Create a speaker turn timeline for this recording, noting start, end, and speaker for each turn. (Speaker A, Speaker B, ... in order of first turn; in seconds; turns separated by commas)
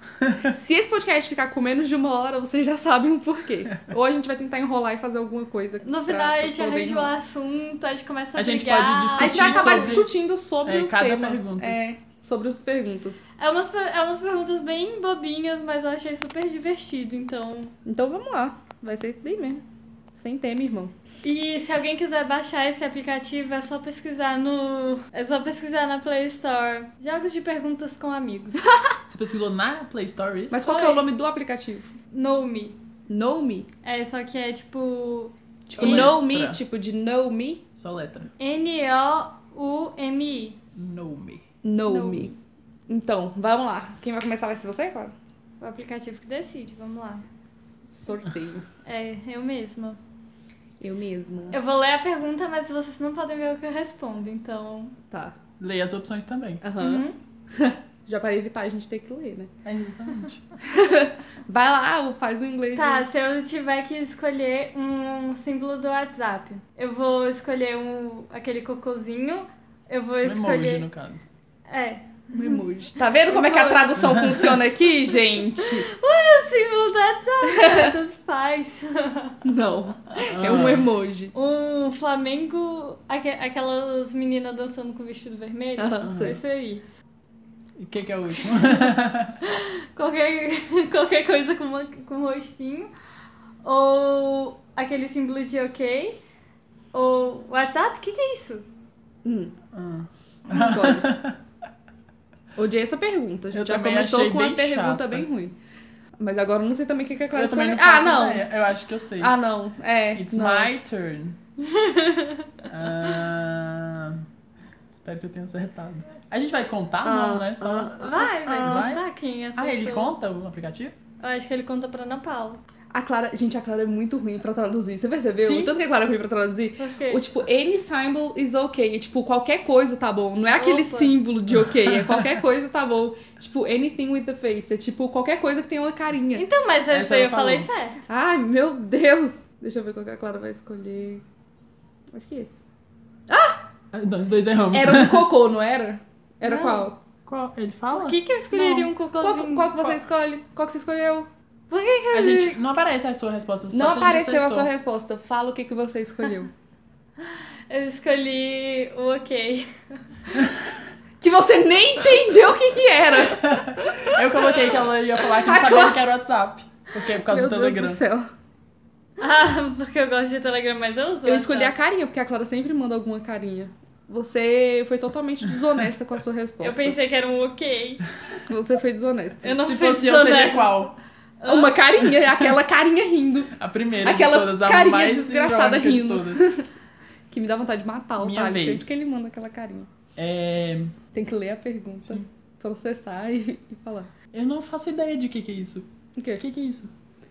Speaker A: 0.5-7.1, Speaker B: 5.8-10.0, Speaker C: 8.3-10.1, Speaker A: 9.2-13.2, Speaker C: 10.6-11.8, Speaker B: 13.4-17.7, Speaker A: 17.9-19.6, Speaker A: 20.1-20.9, Speaker B: 21.2-28.6, Speaker A: 28.7-28.9, Speaker C: 29.1-30.7, Speaker A: 30.5-31.9, Speaker B: 30.6-31.1, Speaker B: 32.1-32.8, Speaker A: 33.1-33.7, Speaker B: 33.8-36.2, Speaker A: 35.7-37.6, Speaker C: 35.8-36.6, Speaker C: 37.8-38.3, Speaker B: 38.4-40.6, Speaker C: 40.8-41.4, Speaker A: 41.6-42.4, Speaker B: 41.9-42.3, Speaker A: 42.9-45.1, Speaker B: 45.6-47.2, Speaker A: 47.9-48.7, Speaker B: 48.8-50.0, Speaker A: 50.8-51.6, Speaker B: 51.5-55.0, Speaker C: 55.6-56.6, Speaker A: 56.6-59.5, Speaker B: 56.8-57.1, Speaker C: 59.6-60.5, Speaker A: 60.6-63.0, Speaker B: 62.7-70.9, Speaker C: 70.2-71.3, Speaker B: 71.7-72.6, Speaker A: 72.3-75.9, Speaker B: 73.3-74.2, Speaker C: 74.0-74.6, Speaker B: 75.1-79.4, Speaker A: 77.5-77.9, Speaker A: 79.4-81.3, Speaker C: 80.2-80.9, Speaker B: 81.3-86.8, Speaker A: 85.8-86.4, Speaker C: 86.0-86.4, Speaker C: 87.8-89.4, Speaker B: 88.4-88.9, Speaker B: 89.4-92.9, Speaker B: 93.6-96.2, Speaker B: 96.9-98.6, Speaker A: 99.2-99.5, Speaker C: 99.7-101.4, Speaker A: 100.5-101.1, Speaker A: 102.5-105.5, Speaker C: 103.5-105.3, Speaker A: 106.2-108.5, Speaker C: 107.3-109.3, Speaker A: 109.2-110.7, Speaker C: 110.1-111.4, Speaker B: 111.6-112.6, Speaker C: 112.7-114.2, Speaker C: 114.9-119.0, Speaker A: 117.0-119.0, Speaker B: 117.6-120.1, Speaker C: 119.5-121.0, Speaker B: 121.2-122.6, Speaker A: 122.9-136.4, Speaker C: 125.4-125.7, Speaker B: 126.8-127.2, Speaker B: 130.6-131.2, Speaker C: 131.6-132.4, Speaker B: 136.3-138.0, Speaker C: 136.9-137.7, Speaker A: 138.1-141.2, Speaker A: 142.1-142.6, Speaker A: 143.3-143.6, Speaker C: 143.9-145.3, Speaker A: 144.7-147.0, Speaker B: 146.4-146.9, Speaker C: 147.2-148.9, Speaker B: 147.9-149.9, Speaker A: 149.2-151.3, Speaker B: 151.7-152.6, Speaker C: 152.1-154.7, Speaker A: 153.7-156.5, Speaker B: 157.3-160.0, Speaker C: 160.3-160.7, Speaker A: 161.2-163.7, Speaker C: 163.4-168.0, Speaker B: 163.8-164.8, Speaker A: 165.3-166.0, Speaker A: 167.2-168.3, Speaker B: 169.2-171.7, Speaker A: 171.2-177.0, Speaker B: 176.6-178.0, Speaker A: 178.5-179.4, Speaker B: 179.4-180.8, Speaker C: 179.6-180.9, Speaker B: 181.4-181.8, Speaker A: 181.4-186.7, Speaker C: 183.5-186.5, Speaker A: 187.3-189.9, Speaker C: 188.2-189.0, Speaker C: 190.2-191.0, Speaker A: 191.1-194.1, Speaker C: 194.3-196.9, Speaker A: 196.2-196.4